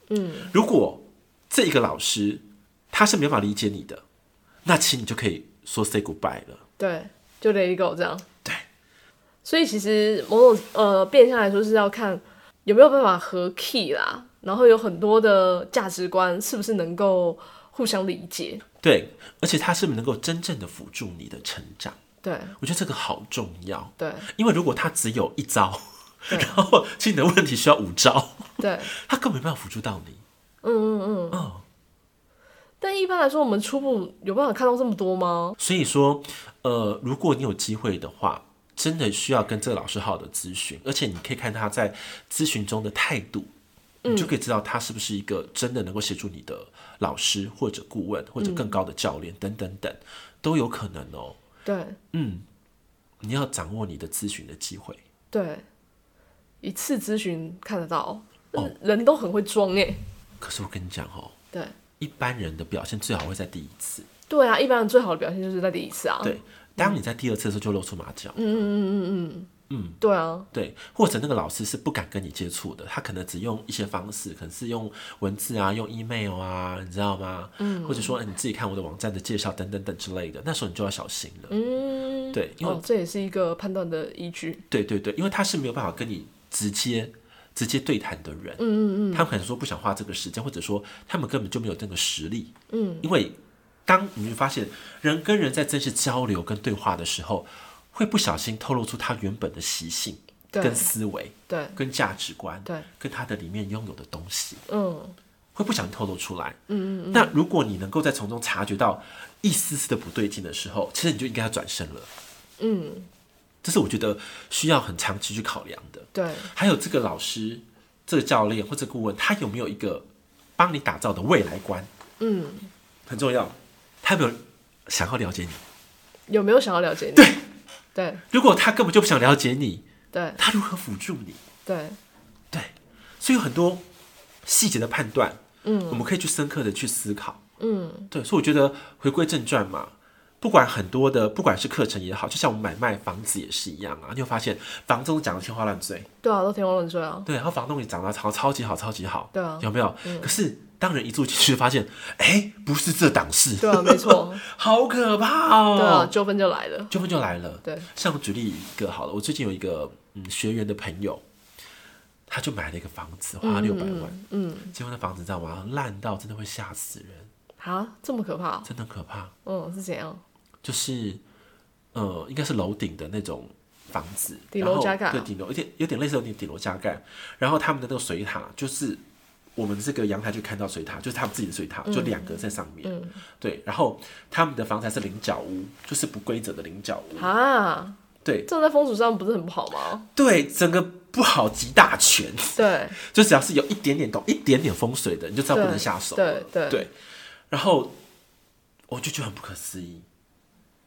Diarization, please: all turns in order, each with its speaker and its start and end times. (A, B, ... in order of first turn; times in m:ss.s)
0:00.1-0:00.5 A
0:00.5-0:04.0 B
0:04.6-0:06.6 B
0:06.8-0:08.2 A
0:09.4-0:18.6 A
0:18.8-0:22.0 B
0:22.2-0:22.6 A
0:22.6-0:30.2 B
0:24.0-0:24.3 A
0:26.3-0:26.5 A
0:28.6-0:28.9 A
0:30.6-0:31.5 A
0:31.3-0:31.6 B
0:32.8-0:35.6 A
0:35.6-0:43.5 B
0:44.0-0:44.3 A
0:44.1-0:51.4 B
0:48.4-0:48.8 A
0:51.6-0:52.0 A
0:52.1-0:52.4 B
0:53.2-0:55.0 B
0:55.3-0:55.6 A
0:56.6-1:00.0 A
1:00.4-1:01.3 B
1:02.0-1:04.1 B
1:04.3-1:07.0 A
1:06.2-1:08.6 B
1:08.4-1:09.5 A
1:09.7-1:10.0 B
1:10.0-1:10.5 A
1:10.5-1:21.6 B
1:17.6-1:18.2 A
1:21.5-1:24.6 A
1:22.3-1:22.8 B
1:24.7-1:44.6 B
1:28.6-1:29.2 A
1:32.7-1:33.1 A
1:40.5-1:40.9 A
1:41.5-1:41.8 A
1:44.7-1:45.2 A
1:45.5-1:46.6 B
1:46.7-1:47.3 A
1:47.1-1:52.1 B
1:52.6-1:53.1 A
1:53.6-2:00.0 B
1:56.1-1:56.5 A
2:00.6-2:01.9 B
2:02.2-2:02.7 A
2:03.1-2:05.6 B
2:06.3-2:07.3 A
2:07.1-2:07.4 B
2:07.9-2:08.2 A
2:08.3-2:09.8 B
2:10.1-2:10.4 A
2:10.4-2:11.4 B
2:11.6-2:12.0 A
2:12.5-2:13.8 B
2:14.4-2:17.4 B
2:15.6-2:16.0 A
2:17.6-2:18.1 A
2:18.1-2:26.1 B
2:26.2-2:27.3 A
2:27.2-2:36.1 B
2:29.3-2:30.3 A
2:33.6-2:34.4 A
2:35.7-2:36.9 A
2:36.9-2:41.2 B
2:42.3-2:44.2 B
2:43.4-2:44.7 A
2:44.7-2:47.3 B
2:47.6-2:48.7 A
2:48.6-2:49.3 B
2:49.4-2:50.2 A
2:50.6-2:51.2 B
2:51.9-2:59.0 B
2:54.5-2:55.3 A
2:59.6-3:07.3 B
3:01.8-3:03.2 A
3:07.2-3:10.1 A
3:08.2-3:08.5 B
3:10.1-3:16.9 B
3:12.6-3:13.0 A
3:15.5-3:16.9 A
3:17.5-3:18.0 B
3:18.9-3:20.0 B